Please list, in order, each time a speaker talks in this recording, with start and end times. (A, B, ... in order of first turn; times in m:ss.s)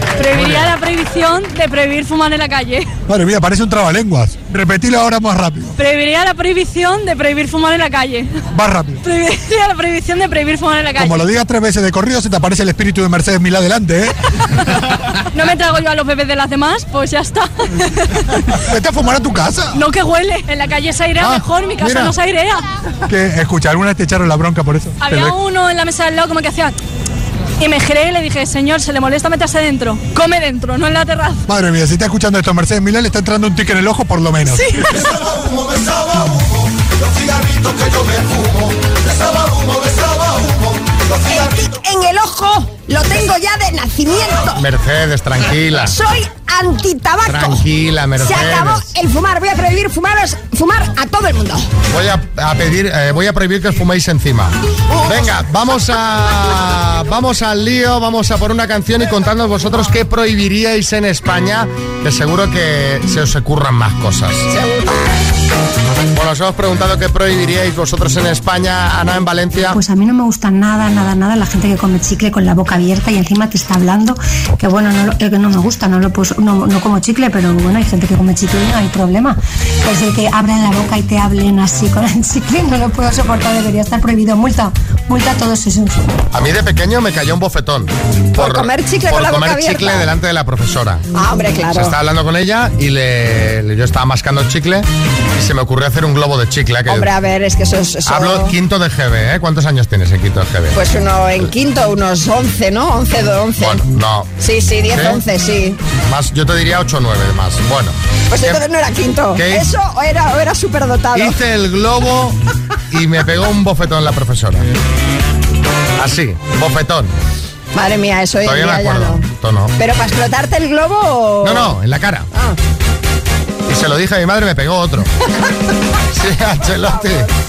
0:00.2-0:02.9 A
0:03.1-0:05.7 B
0:05.8-0:08.3 A
0:08.5-0:09.0 B
0:09.0-0:11.2 A
0:11.0-0:14.1 B
0:15.3-0:18.2 A
0:18.6-0:19.8 B
0:19.7-0:22.6 A
0:23.1-0:25.4 B
0:25.0-0:26.7 A
0:27.6-0:31.4 A
0:31.5-0:35.0 B
0:34.5-0:34.8 A
0:41.2-0:44.6 C
0:44.6-0:46.0 D
0:45.9-0:47.6 C
0:47.3-0:48.8 D
0:48.2-0:51.7 C
0:51.9-1:04.5 D
1:04.5-1:04.9 C
1:06.1-1:09.8 D
1:09.7-1:26.1 E
1:26.3-1:31.0 D
1:28.4-1:30.1 C
1:31.1-1:31.9 C
1:31.7-1:37.1 D
1:36.9-1:38.5 C
1:38.1-1:40.8 D
1:40.7-1:43.8 C
1:43.6-1:44.3 D
1:44.4-1:45.8 C
1:44.9-1:45.2 D
1:46.0-1:48.6 D
1:48.3-1:51.3 C
1:49.3-1:49.6 D
1:51.1-1:52.4 D
1:52.9-1:54.7 D
1:56.0-1:57.1 D
1:57.7-1:59.2 C
1:58.4-1:59.7 D
1:59.8-2:01.7 C
2:01.4-2:02.3 D
2:03.7-2:05.1 D
2:06.1-2:07.3 D
2:06.9-2:07.3 C